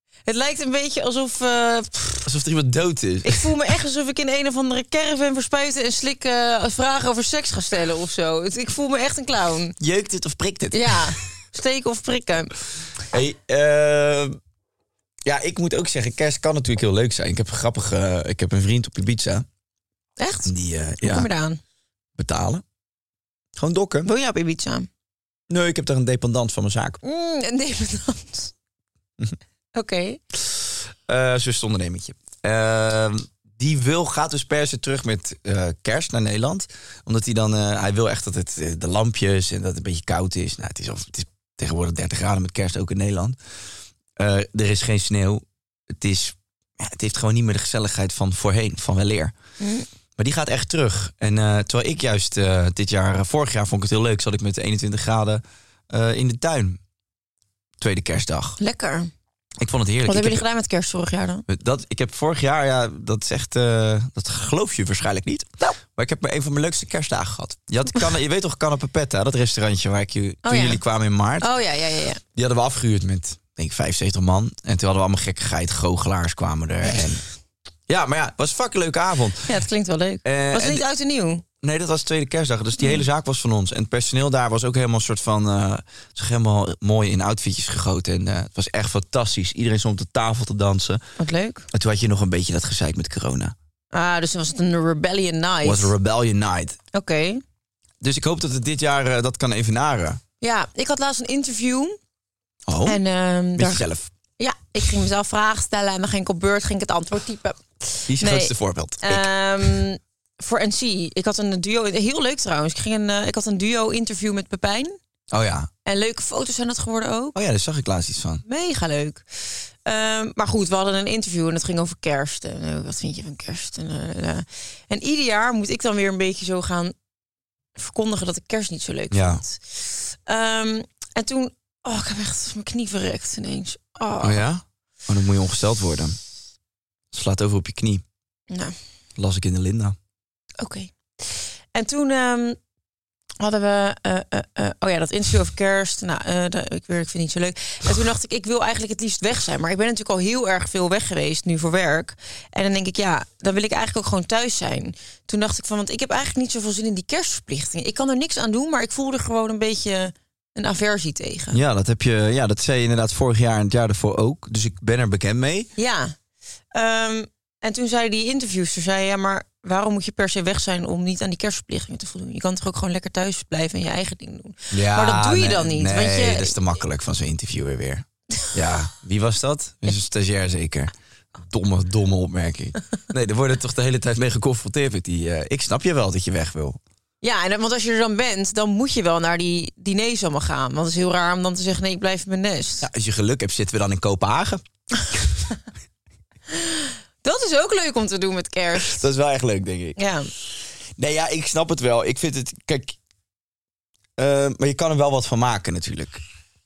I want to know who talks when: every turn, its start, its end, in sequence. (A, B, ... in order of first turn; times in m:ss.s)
0:00.2-0:02.3 A
0:02.2-0:03.5 B
0:03.2-0:09.7 A
0:09.8-0:11.2 B
0:10.7-0:12.5 A
0:13.1-0:14.4 B
0:15.2-0:19.4 B
0:20.2-0:21.6 A
0:20.4-0:21.3 B
0:22.2-0:22.6 B
0:23.6-0:24.1 B
0:24.0-0:24.9 A
0:25.5-0:27.0 B
0:27.0-0:28.5 A
0:29.7-0:30.2 A
0:31.0-0:43.4 B
0:44.2-0:49.3 B
0:49.6-0:49.9 A
0:50.2-0:56.8 B
0:57.8-0:58.6 B
0:58.6-0:59.1 A
0:59.6-1:00.4 B
1:00.0-1:01.4 A
1:01.5-1:11.5 B
1:10.4-1:10.8 A
1:11.4-1:12.2 A
1:12.3-1:17.2 B
1:17.9-1:19.5 B
1:19.5-1:21.4 A
1:20.2-1:20.8 B
1:21.6-1:31.0 B
1:31.2-1:31.7 A
1:31.7-1:33.5 B
1:33.9-1:35.9 A
1:35.6-1:36.8 B
1:36.9-1:37.4 A
1:38.0-1:40.2 B
1:40.4-1:42.0 A
1:42.7-1:43.0 B
1:42.8-1:43.8 A
1:43.6-1:44.1 B
1:44.4-1:55.0 A
1:48.1-1:49.8 B
1:55.3-1:55.7 B
1:55.8-1:57.3 A
1:57.3-1:58.4 B
1:58.4-1:59.2 A
1:59.8-2:06.9 A
2:07.8-2:14.4 A
2:09.1-2:09.4 B
2:14.2-2:16.2 B
2:17.1-2:18.0 B
2:19.2-2:20.0 B
2:20.6-2:22.6 A
2:23.4-2:41.6 A
2:41.5-2:45.7 B
2:45.8-2:46.1 A
2:46.7-2:56.5 A
2:54.7-3:06.8 B
3:07.2-3:12.9 A
3:12.8-3:15.2 B
3:16.5-3:19.0 A
3:18.8-3:20.0 B
3:20.0-3:20.3 A
3:21.0-3:23.0 B
3:24.2-3:26.2 B